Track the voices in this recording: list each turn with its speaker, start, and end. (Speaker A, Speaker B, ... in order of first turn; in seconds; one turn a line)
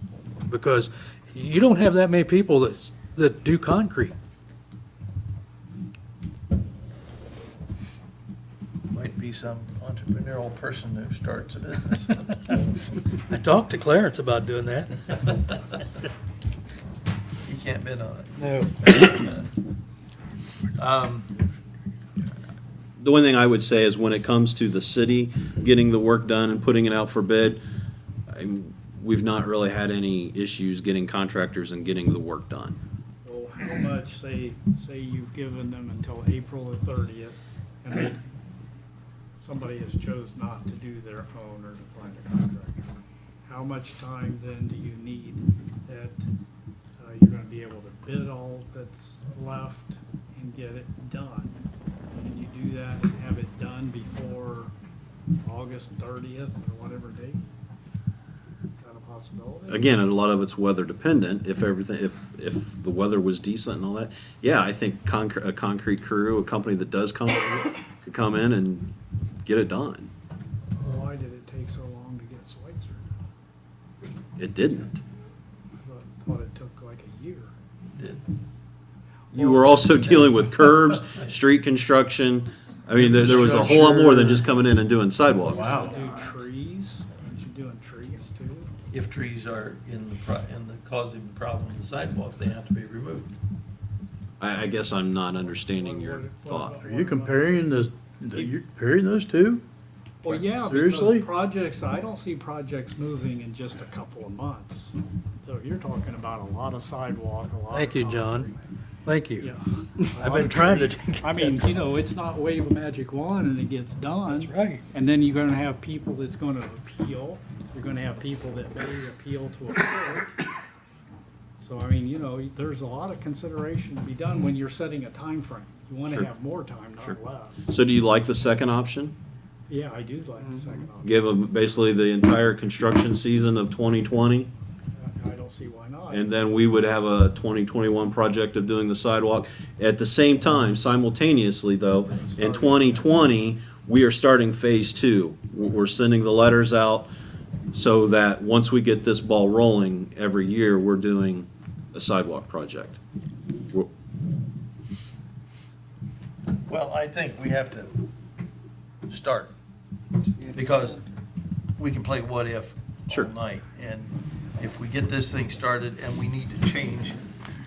Speaker A: 0.5-4.2
Speaker B: 8.9-12.3
Speaker A: 13.3-15.3
Speaker B: 17.4-19.4
Speaker A: 18.4-19.2
Speaker B: 20.8-21.3
Speaker C: 23.0-27.6
Speaker C: 28.3-32.8
Speaker D: 33.2-38.2
Speaker D: 39.4-42.9
Speaker D: 43.4-46.3
Speaker D: 47.0-51.6
Speaker D: 52.1-54.7
Speaker D: 55.4-57.4
Speaker D: 58.8-59.9
Speaker C: 59.7-68.9
Speaker C: 69.5-70.1
Speaker D: 70.8-73.1
Speaker C: 74.4-75.0
Speaker D: 75.8-77.5
Speaker B: 77.9-78.2
Speaker C: 79.3-85.9
Speaker B: 79.4-80.4
Speaker E: 83.0-84.5
Speaker B: 83.2-84.0
Speaker D: 85.4-88.7
Speaker E: 85.5-86.2
Speaker B: 88.9-93.3
Speaker C: 94.4-96.8
Speaker D: 95.5-97.7
Speaker E: 96.8-99.6
Speaker D: 100.2-108.6
Speaker E: 100.3-101.3
Speaker A: 107.7-108.5
Speaker A: 109.0-109.5
Speaker D: 109.4-120.4
Speaker A: 110.0-111.6
Speaker A: 114.3-114.8
Speaker D: 121.6-127.7
Speaker C: 127.0-129.2
Speaker D: 129.7-131.1
Speaker C: 131.0-134.5
Speaker D: 135.0-136.3
Speaker C: 136.1-147.1
Speaker D: 142.2-143.1
Speaker C: 147.7-153.0
Speaker B: 156.7-158.0
Speaker B: 159.1-159.5
Speaker B: 160.5-161.0
Speaker B: 161.8-167.2